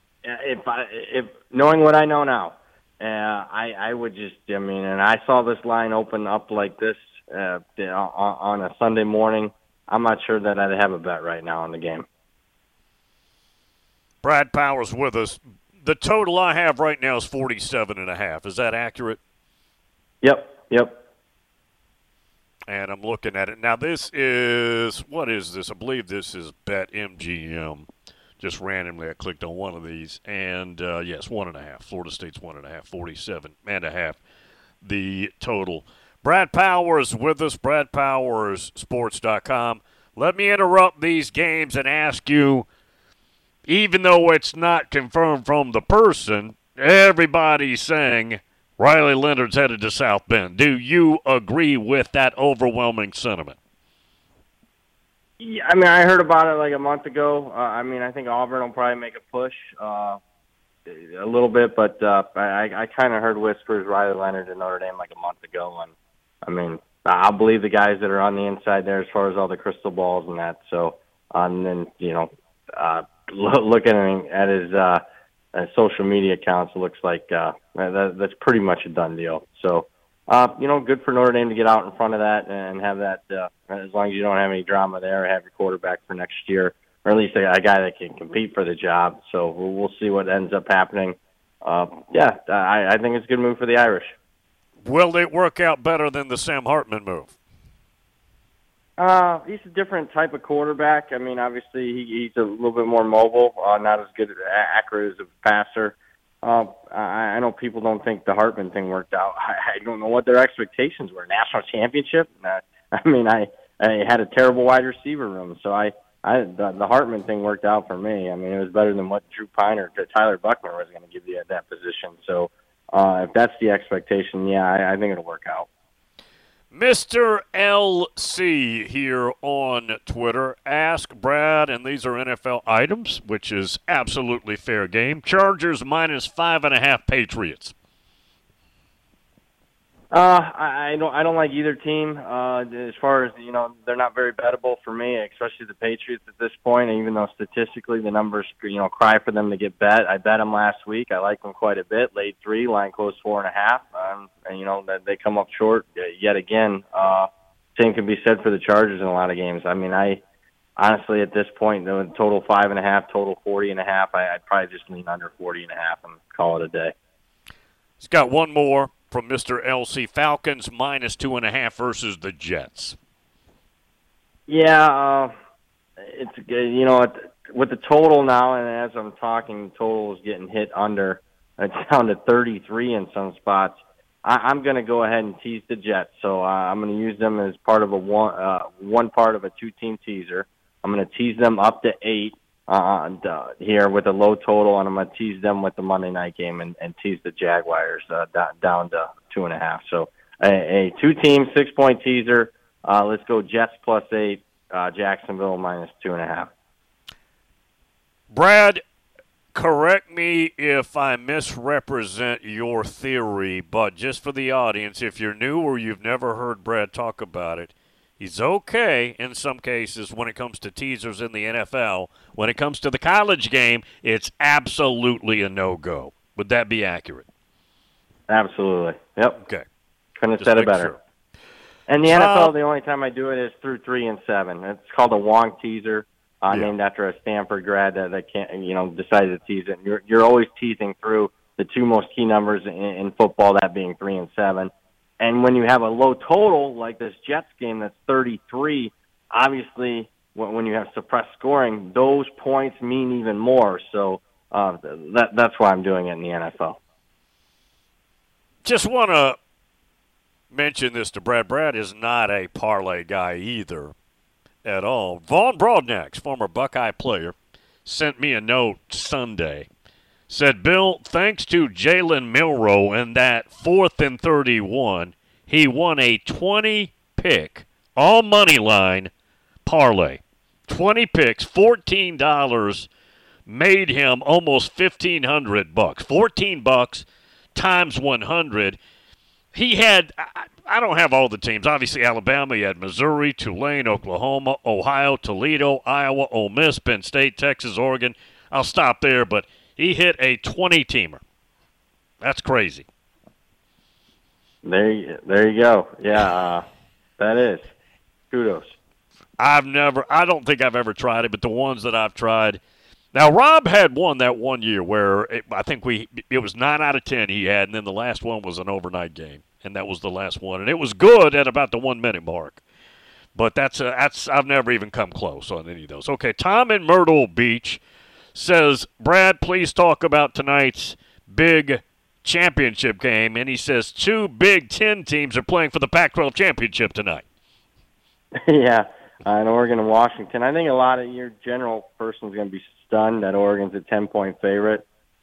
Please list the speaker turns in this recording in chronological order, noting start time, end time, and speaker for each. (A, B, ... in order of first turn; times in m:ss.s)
0:00.2-0:12.1 A
0:14.2-0:19.2 B
0:20.2-0:21.0 A
0:22.7-0:27.9 B
0:28.4-0:34.2 B
0:34.8-0:42.7 B
0:43.7-0:53.6 B
0:55.4-1:00.2 A
1:00.9-1:05.9 A
1:06.4-1:15.0 A
1:15.5-1:34.1 A
1:34.8-1:37.3 B
1:39.0-2:05.7 A
2:06.7-2:17.7 B
2:20.1-2:40.2 A
2:40.8-2:46.9 A
2:48.0-2:53.0 B
2:54.5-2:55.3 A
2:56.0-3:26.5 A
3:28.3-3:28.8 B
3:29.5-3:47.2 B
3:48.3-3:49.4 A
3:49.4-3:49.6 B
3:50.2-3:50.9 A
3:50.4-3:51.0 B
3:51.9-4:16.8 A
3:52.0-3:52.5 B
4:18.6-4:19.4 B
4:20.5-4:23.9 B
4:24.6-4:29.7 B
4:30.3-4:39.1 B
4:39.6-4:42.9 B
4:43.5-4:48.8 B
4:49.5-5:01.2 B
5:02.2-5:02.9 B
5:04.6-5:06.6 A
5:07.2-5:07.7 A
5:08.3-5:08.8 A
5:09.4-5:12.6 B
5:13.1-5:22.6 B
5:23.4-5:27.8 B
5:28.4-5:37.2 B
5:38.4-5:44.8 A